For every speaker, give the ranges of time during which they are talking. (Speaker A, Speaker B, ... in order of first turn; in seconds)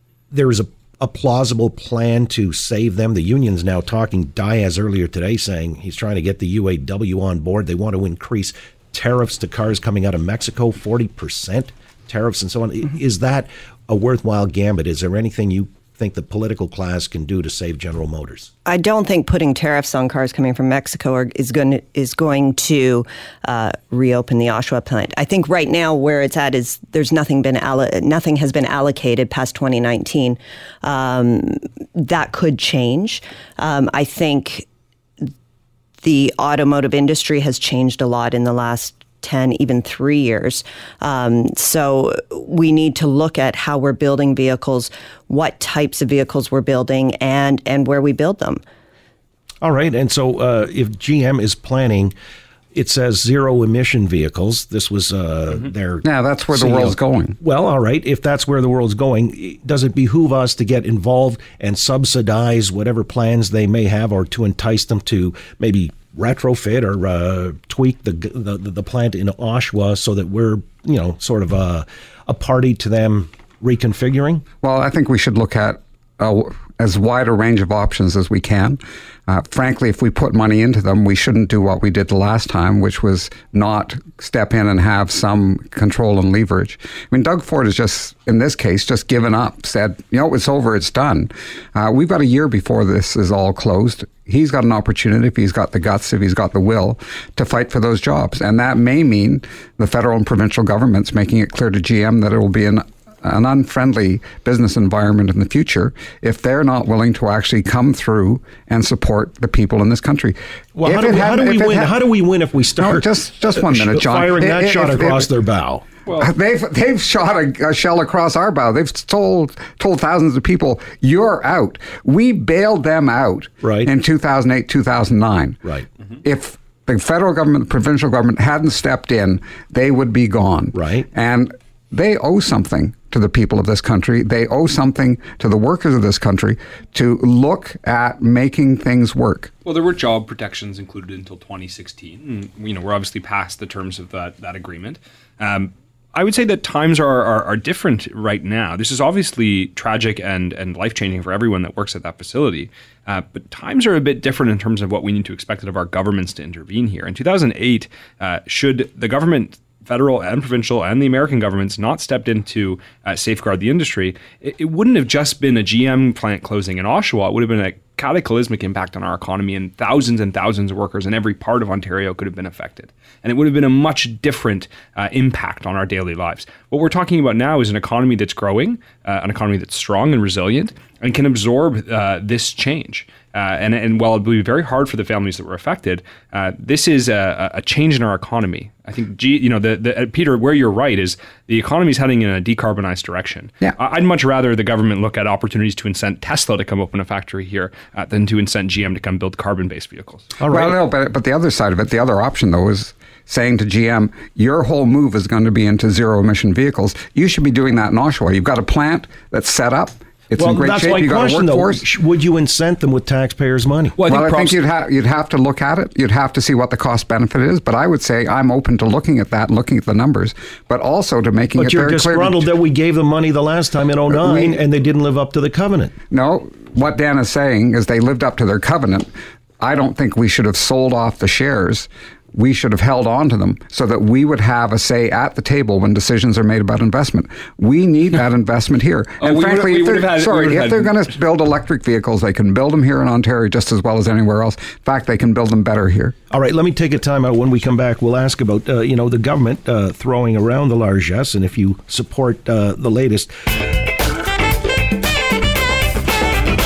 Speaker A: 0.3-18.5, 49.6-52.1, 52.7-74.4, 110.7-115.8, 123.6-123.9, 130.7-131.1, 200.4-200.8, 210.3-213.9, 221.6-225.9, 246.3-253.3
Speaker B: 18.6-34.6, 36.0-48.6
Speaker C: 56.0-57.4, 74.6-111.9, 112.8-115.3, 116.1-125.6, 126.2-139.5, 200.5-211.8, 214.0-222.4, 224.1-224.6, 226.1-229.1, 229.6-246.1
Speaker D: 116.1-116.3, 139.6-200.3, 214.0-214.6, 239.2-241.1